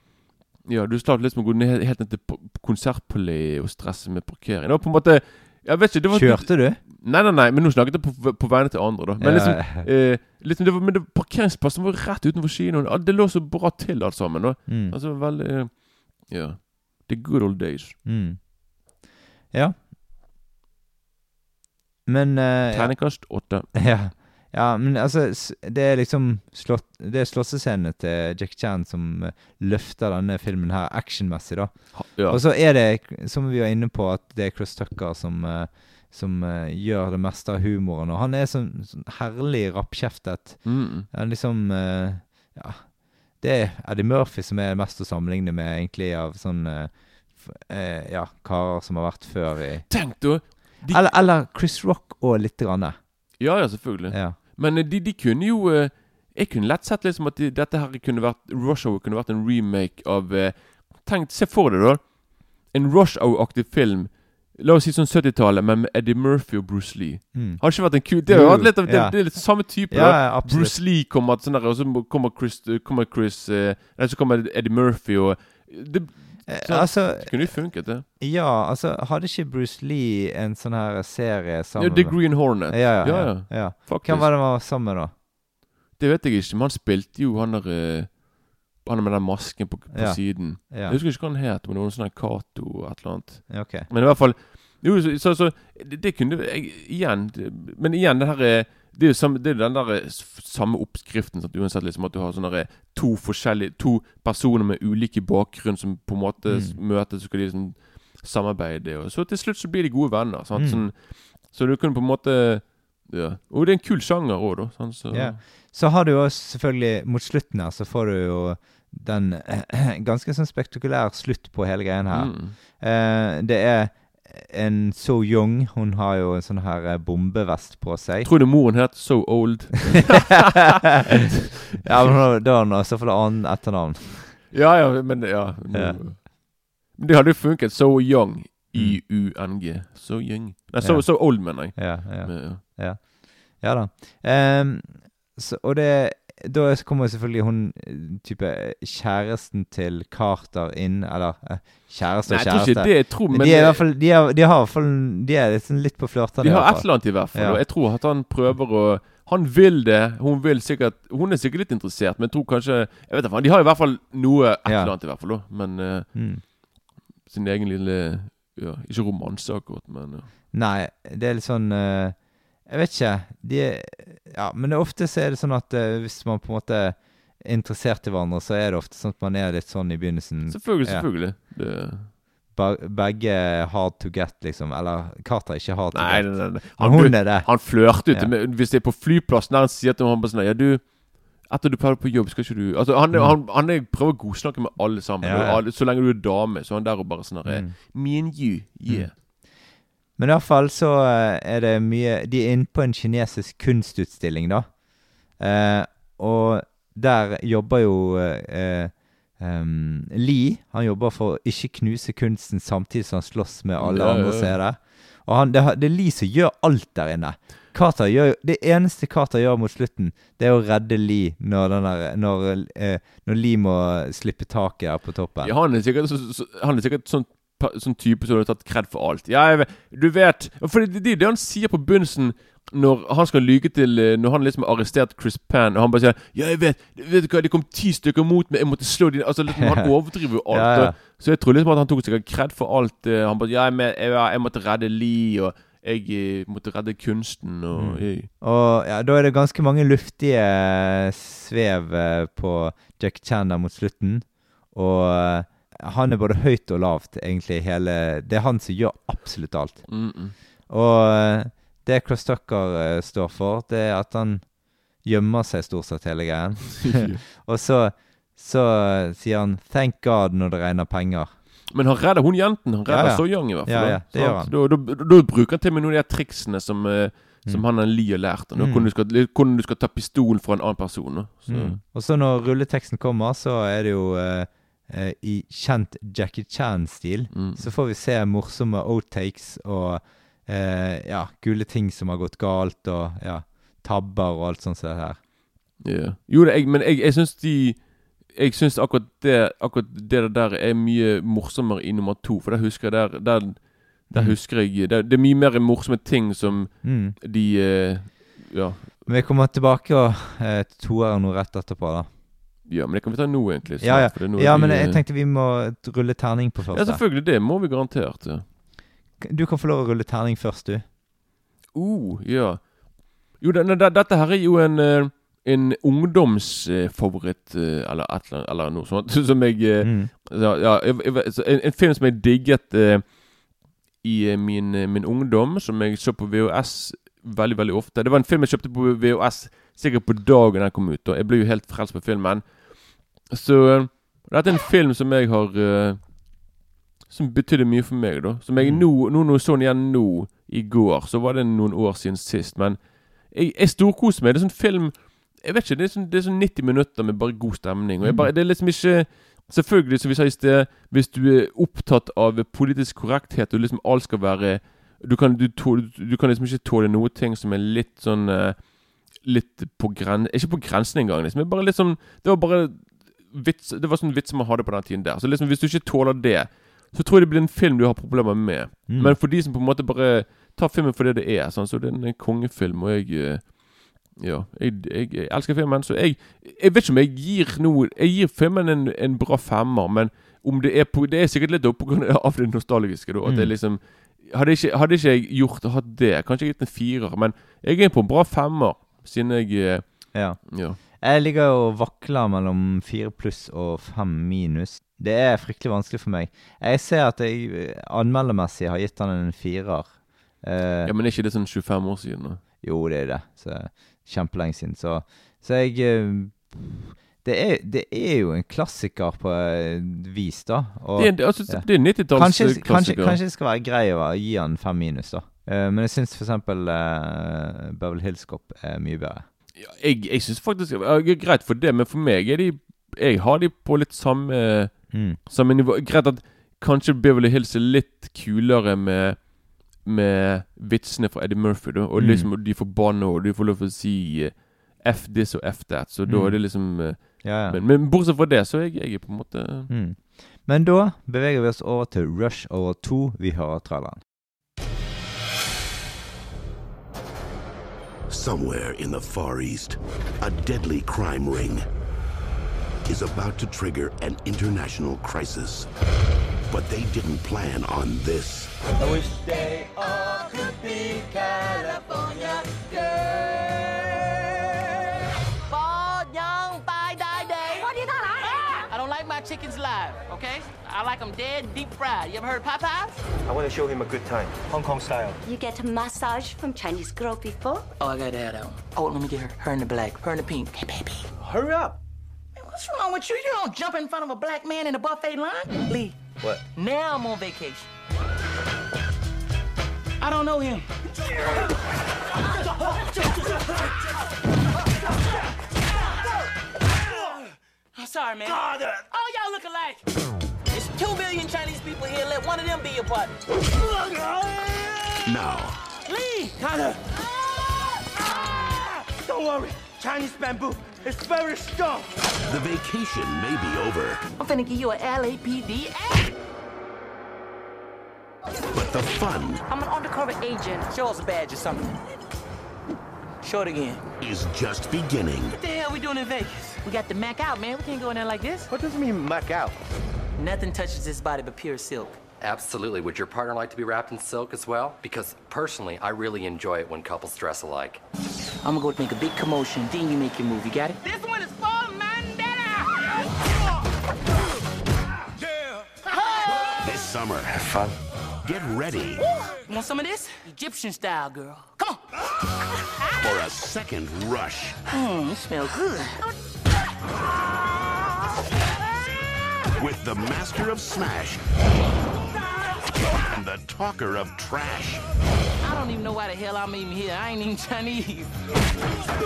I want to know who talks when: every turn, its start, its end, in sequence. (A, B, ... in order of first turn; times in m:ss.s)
0:00.6-0:18.0 A
0:06.1-0:06.8 B
0:09.2-0:09.9 B
0:14.7-0:15.0 B
0:18.0-0:18.4 B
0:19.5-0:19.8 B
0:22.0-0:23.2 B
0:22.7-0:23.7 A
0:23.7-0:49.9 B
0:31.9-0:32.4 A
0:40.6-0:41.1 A
0:49.9-0:51.2 A
0:50.9-0:53.0 B
0:53.4-1:18.0 A
0:54.1-0:54.4 B
1:07.3-1:10.8 B
1:16.5-1:25.1 B
1:21.8-1:24.3 A
1:26.0-1:28.2 A
1:28.8-1:55.4 A
1:29.9-1:31.0 B
1:33.5-1:33.9 B
1:46.5-1:46.8 B
1:50.5-1:50.8 B
1:55.1-2:08.3 B
2:02.1-2:02.6 A
2:08.2-2:10.5 A
2:11.8-2:14.4 B
2:14.5-2:22.6 A
2:15.7-2:16.0 B
2:18.7-2:19.0 B
2:20.8-2:37.6 B
2:32.3-2:33.8 A
2:36.4-2:46.1 A
2:44.6-2:44.9 B
2:46.1-2:46.4 B
2:47.3-2:50.3 A
2:50.5-3:01.1 B
3:00.5-3:02.1 A
3:02.5-3:08.3 B
3:05.9-3:19.1 A
3:15.2-3:15.6 B
3:17.4-3:17.7 B
3:20.2-3:24.8 B
3:25.3-3:45.5 B
3:33.8-3:34.6 A
3:45.4-4:08.3 A
3:59.5-3:59.9 B
4:00.5-4:00.9 B
4:07.7-4:20.0 B
4:19.9-4:20.4 A
4:20.7-4:24.5 B
4:25.0-4:31.3 B
4:26.8-4:27.2 A
4:31.7-4:41.8 A
4:32.9-4:34.5 B
4:38.6-4:38.9 B
4:41.5-4:55.2 B
4:47.3-4:47.7 A
4:55.8-5:09.0 A
5:06.8-5:07.2 B
5:09.0-5:12.1 B
5:12.7-5:15.0 A
5:13.8-5:17.0 B
5:16.7-5:18.4 A
5:19.2-5:20.8 B
5:21.7-5:22.6 A
5:23.3-5:33.0 A
5:29.8-5:30.1 B
5:34.0-5:42.5 A
5:43.3-5:46.0 A
5:47.1-6:08.6 A
5:48.6-5:48.9 B
5:58.0-5:58.3 B
6:09.2-6:23.5 A
6:18.9-6:19.2 B
6:24.1-6:39.8 A
6:33.2-6:33.5 B
6:40.1-6:50.9 B
6:40.5-6:40.8 A
6:50.8-6:52.4 A
6:52.6-7:09.2 B
7:01.0-7:03.2 A
7:09.6-7:14.7 A
7:14.9-7:15.2 B
7:15.2-7:19.2 A
7:19.8-7:29.7 A
7:22.0-7:22.3 B
7:26.0-7:26.4 B
7:27.2-7:27.6 B
7:29.7-7:34.0 B
7:38.1-7:41.7 C
7:42.8-7:45.7 C
7:46.5-7:48.6 C
7:49.8-7:52.6 D
7:55.5-8:03.0 D
7:57.5-7:58.6 E
8:03.2-8:05.2 F
8:05.2-8:07.6 E
8:07.8-8:11.1 D
8:11.2-8:11.8 F
8:12.4-8:17.7 D
8:20.0-8:20.6 D
8:22.7-8:23.4 D
8:27.7-8:29.8 D
8:30.5-8:33.1 D
8:35.0-8:35.6 C
8:35.8-8:37.0 D
8:39.0-8:41.9 D
8:42.2-8:44.0 C
8:44.2-8:46.1 D
8:48.5-8:49.4 C
8:49.5-8:51.8 D
8:53.2-8:53.8 D
8:54.0-8:55.4 C
8:55.4-8:58.5 D
8:58.5-8:59.6 F
9:00.2-9:02.0 D
9:02.2-9:07.8 G
9:08.4-9:12.9 D
9:15.8-9:16.5 D
9:16.6-9:17.4 C
9:18.2-9:19.0 C
9:19.0-9:21.8 D
9:23.0-9:24.6 C
9:24.7-9:26.0 D
9:29.6-9:31.2 C
9:32.9-9:34.8 C
9:35.4-9:38.1 D